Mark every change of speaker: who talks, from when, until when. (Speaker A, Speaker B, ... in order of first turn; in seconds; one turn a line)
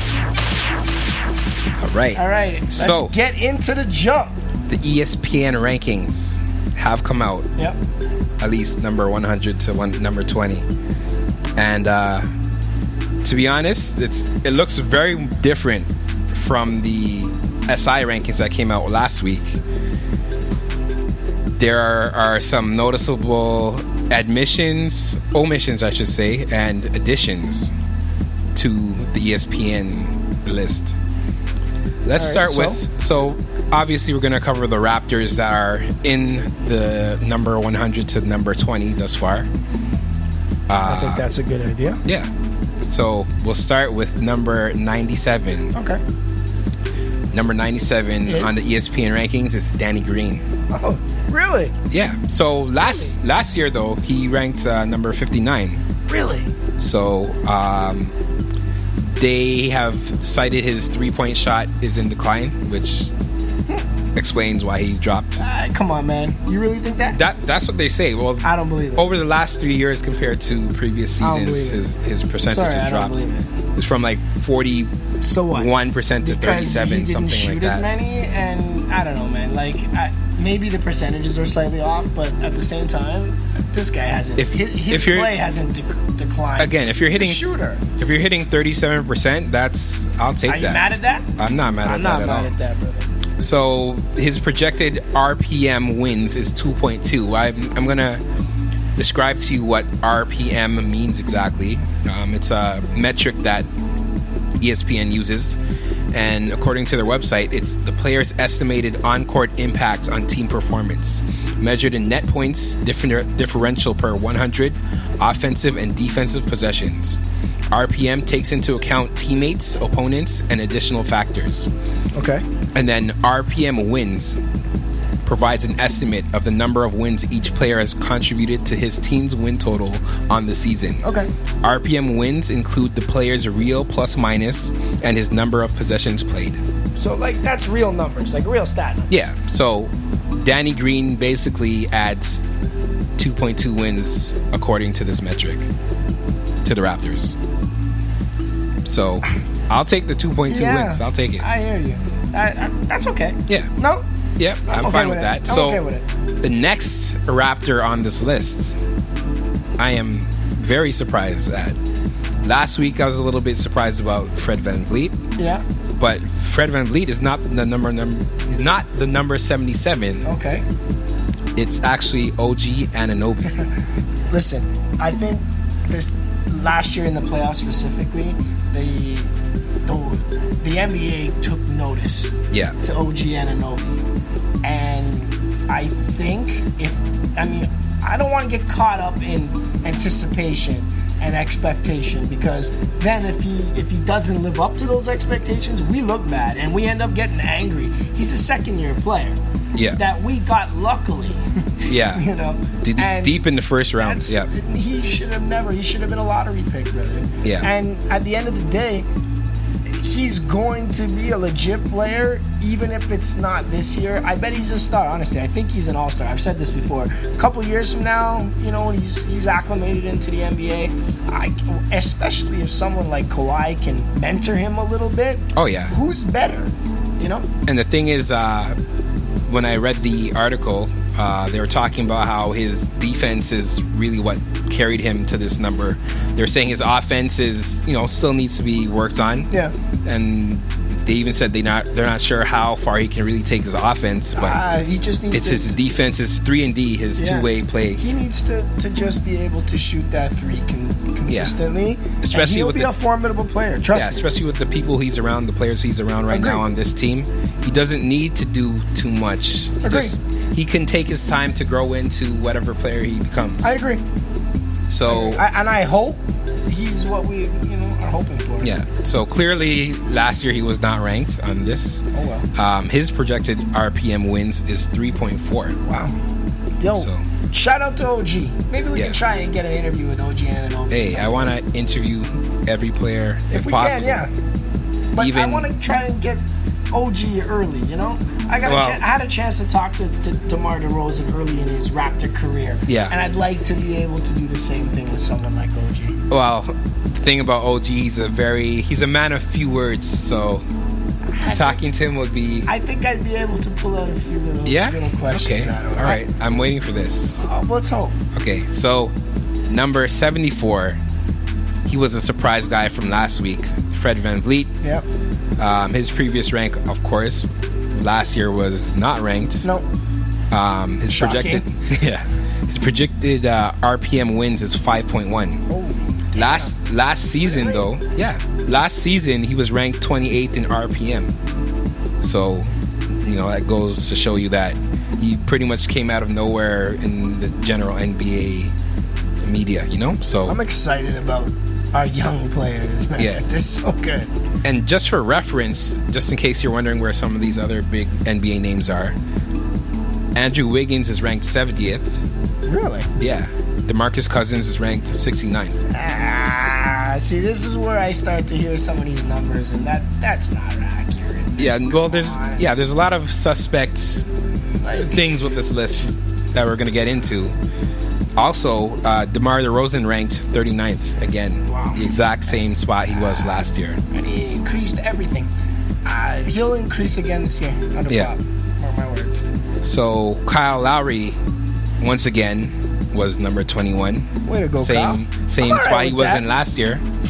Speaker A: 1.8-3.1
Speaker B: 2.1-4.3
Speaker A: 4.7-7.5
Speaker A: 8.4-10.7
Speaker A: 11.6-12.3
Speaker A: 13.2-19.6
Speaker A: 21.6-27.7
Speaker A: 28.5-31.0
Speaker A: 32.0-39.5
Speaker B: 32.2-32.8
Speaker A: 40.7-41.2
Speaker B: 40.8-42.0
Speaker A: 42.0-42.3
Speaker A: 42.8-45.7
Speaker B: 45.7-46.0
Speaker A: 47.3-50.4
Speaker B: 48.2-48.6
Speaker B: 50.7-51.7
Speaker A: 51.9-55.8
Speaker B: 52.8-53.1
Speaker B: 56.1-56.5
Speaker A: 56.8-58.1
Speaker A: 59.0-63.1
Speaker A: 64.2-65.4
Speaker B: 65.4-67.2
Speaker A: 67.1-73.1
Speaker B: 68.4-69.1
Speaker B: 71.2-71.8
Speaker B: 72.4-73.5
Speaker A: 73.8-74.9
Speaker B: 75.2-87.8
Speaker A: 75.5-77.9
Speaker A: 84.4-85.4
Speaker A: 86.6-87.4
Speaker A: 88.0-92.5
Speaker B: 90.5-91.3
Speaker B: 91.9-93.1
Speaker A: 93.4-98.2
Speaker A: 99.0-103.7
Speaker A: 104.6-105.6
Speaker A: 106.1-121.7
Speaker B: 122.2-122.4
Speaker A: 122.7-124.4
Speaker A: 125.2-131.1
Speaker B: 131.0-131.3
Speaker A: 131.6-136.6
Speaker B: 137.0-139.2
Speaker A: 139.1-142.4
Speaker A: 143.2-145.7
Speaker A: 146.6-147.4
Speaker A: 148.8-151.5
Speaker B: 150.5-154.0
Speaker A: 154.4-155.8
Speaker B: 154.7-156.0
Speaker A: 156.4-158.8
Speaker A: 159.8-161.8
Speaker A: 162.4-165.2
Speaker B: 165.4-165.6
Speaker A: 165.9-170.3
Speaker B: 170.2-170.7
Speaker A: 171.6-173.6
Speaker B: 174.3-179.3
Speaker B: 179.9-183.9
Speaker B: 184.6-199.4
Speaker B: 199.9-203.4
Speaker A: 201.9-202.2
Speaker A: 202.8-204.5
Speaker B: 204.0-209.1
Speaker B: 209.9-227.5
Speaker A: 225.5-225.9
Speaker A: 227.7-228.8
Speaker A: 229.5-239.5
Speaker A: 240.1-244.6
Speaker B: 244.3-245.8
Speaker A: 245.3-248.0
Speaker B: 247.2-254.3
Speaker A: 251.3-251.6
Speaker A: 252.2-252.9
Speaker A: 253.9-263.8
Speaker B: 256.3-256.6
Speaker B: 259.8-260.2
Speaker B: 263.6-264.0
Speaker A: 264.9-265.4
Speaker B: 265.1-268.7
Speaker A: 268.6-275.8
Speaker B: 272.1-272.5
Speaker B: 275.8-276.1
Speaker B: 276.8-281.5
Speaker A: 276.9-277.2
Speaker A: 278.9-279.2
Speaker A: 280.9-284.3
Speaker B: 283.5-284.3
Speaker B: 285.1-296.2
Speaker A: 285.2-285.7
Speaker A: 288.6-289.0
Speaker A: 292.9-293.1
Speaker A: 296.3-300.6
Speaker B: 301.3-301.8
Speaker A: 301.5-302.7
Speaker B: 302.7-306.2
Speaker A: 304.6-307.4
Speaker B: 307.4-308.2
Speaker A: 308.3-309.1
Speaker A: 309.7-311.0
Speaker A: 311.9-314.7
Speaker A: 315.6-319.7
Speaker A: 320.5-325.6
Speaker B: 321.1-321.7
Speaker B: 325.7-326.8
Speaker A: 326.4-331.3
Speaker B: 327.4-327.9
Speaker A: 332.2-338.7
Speaker A: 339.4-340.6
Speaker B: 340.5-344.3
Speaker A: 343.2-343.4
Speaker A: 344.6-349.2
Speaker A: 350.4-352.2
Speaker B: 352.7-353.1
Speaker A: 353.2-355.8
Speaker B: 355.9-362.6
Speaker A: 361.6-364.2
Speaker B: 364.8-365.2
Speaker A: 364.9-367.6
Speaker A: 368.4-374.0
Speaker B: 371.6-372.1
Speaker B: 373.2-375.5
Speaker B: 376.1-379.4
Speaker A: 379.8-381.4
Speaker A: 382.0-387.0
Speaker B: 384.4-386.5